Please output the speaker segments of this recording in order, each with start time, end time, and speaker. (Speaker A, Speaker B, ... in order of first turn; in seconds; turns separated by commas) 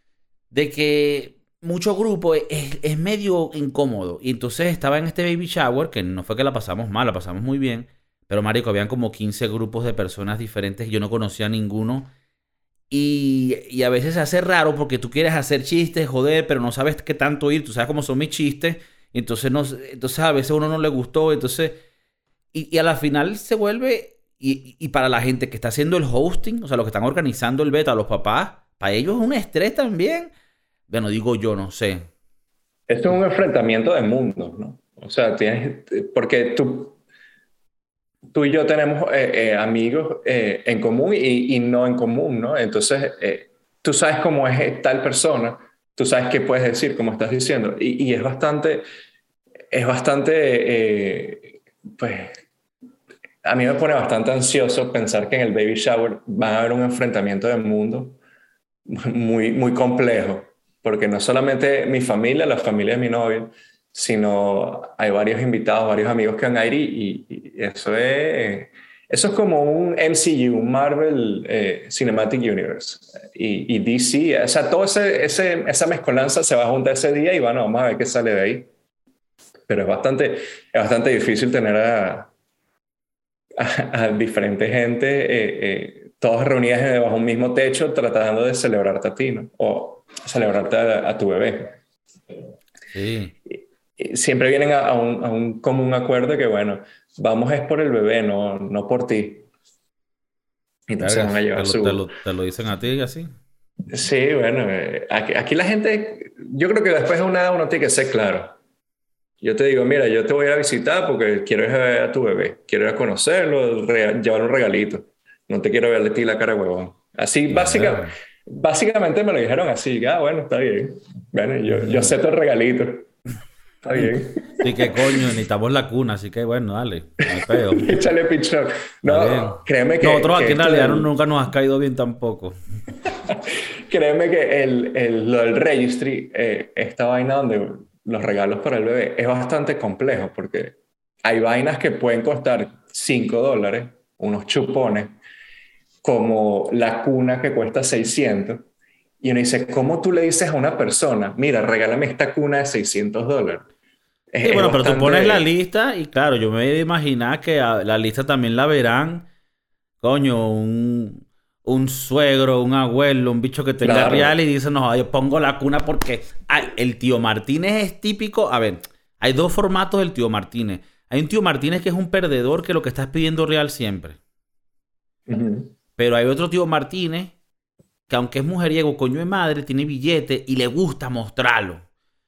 Speaker A: 0.5-12.1, Speaker A: 12.9-21.8, Speaker A: 22.5-30.3, Speaker A: 30.9-32.1, Speaker B: 32.9-37.0, Speaker B: 38.3-48.8, Speaker B: 49.7-52.3, Speaker B: 53.4-58.2, Speaker B: 58.9-78.7, Speaker B: 79.7-82.3, Speaker B: 83.5-91.8, Speaker A: 92.9-93.3, Speaker B: 94.0-99.5, Speaker B: 100.9-102.0, Speaker A: 101.0-103.3, Speaker B: 103.9-108.5, Speaker B: 109.4-123.1, Speaker A: 117.5-118.1, Speaker A: 121.7-122.2, Speaker B: 123.8-125.0, Speaker A: 123.9-128.0, Speaker B: 127.5-131.1, Speaker A: 129.1-132.5, Speaker B: 133.1-145.2, Speaker B: 146.0-148.7, Speaker B: 149.2-153.7, Speaker B: 154.3-155.4, Speaker A: 154.4-159.3, Speaker A: 160.0-174.2, Speaker B: 163.8-164.3, Speaker B: 175.3-175.7, Speaker A: 176.0-177.3, Speaker A: 178.1-181.8